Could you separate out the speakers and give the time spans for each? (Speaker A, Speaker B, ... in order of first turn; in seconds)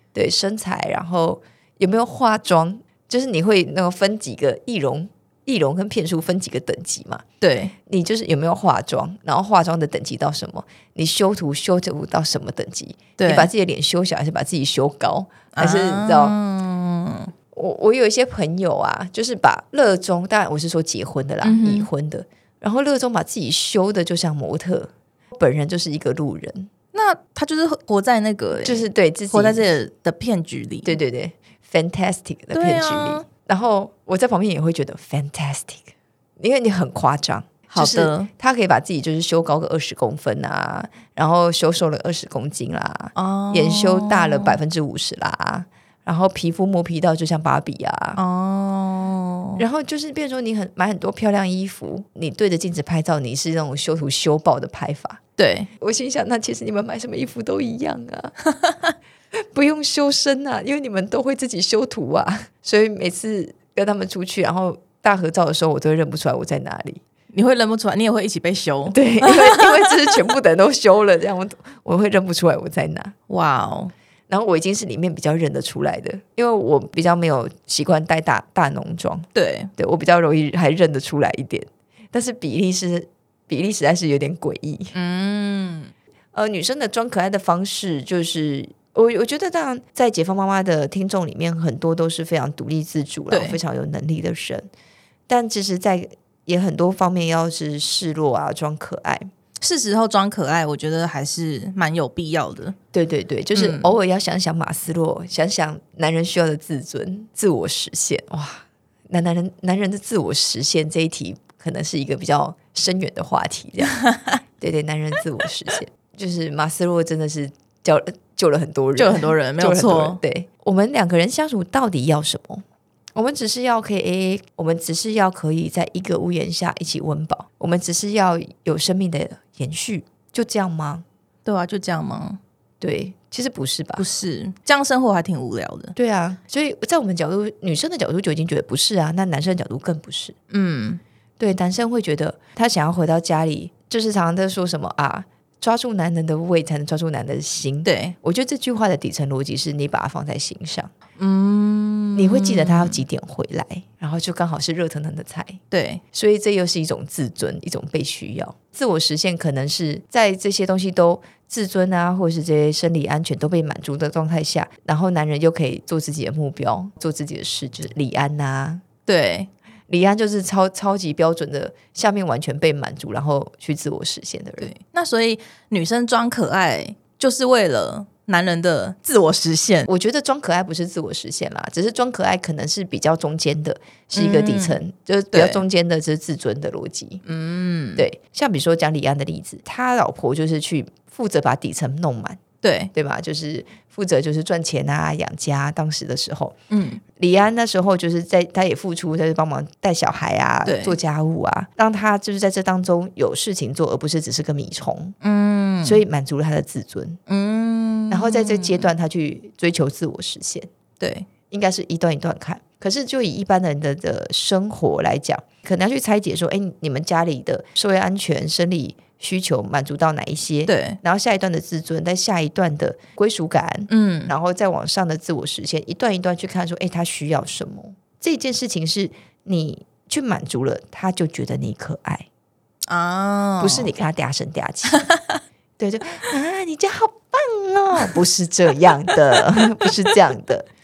Speaker A: 0.1-7.2, 7.8-16.4, 17.5-26.7, 28.6-29.6, 30.8-48.2, 49.6-55.2, 55.8-58.4, 59.5-67.0, 68.9-73.1, 74.3-84.9, 86.3-94.7, 95.3-99.3, 102.9-114.0, 114.6-122.6, 123.1-131.0, 132.8-134.0, 135.9-140.3, 141.4-150.9, 152.1-155.6, 156.1-168.8, 169.9-174.7, 179.8-187.2, 187.9-192.4, 192.9-196.5, 197.2-205.1, 205.8-207.2, 208.1-210.7, 211.5-232.3, 233.6-235.1, 235.8-240.7
Speaker B: 7.4-7.7, 13.2-13.5, 15.5-17.3, 21.4-21.9, 26.9-31.0, 32.5-33.2, 37.7-38.3, 43.1-44.6, 48.1-49.6, 55.4-55.7, 58.6-58.9, 67.3-70.2, 73.3-73.9, 79.3-79.7, 84.9-85.9, 93.3-93.6, 99.6-102.7, 103.5-104.0, 113.9-114.4, 119.0-120.2, 131.4-132.4, 134.0-135.9, 140.5-141.0, 147.8-148.1, 151.2-153.0, 155.7-156.0, 169.1-169.5, 174.6-179.9, 184.1-184.8, 185.3-185.6, 187.2-188.1, 192.6-192.9, 196.7-197.0, 200.6-201.0, 205.2-206.0, 207.3-208.9, 211.0-211.3, 220.7-221.0, 223.9-224.3, 232.9-233.9, 234.9-235.4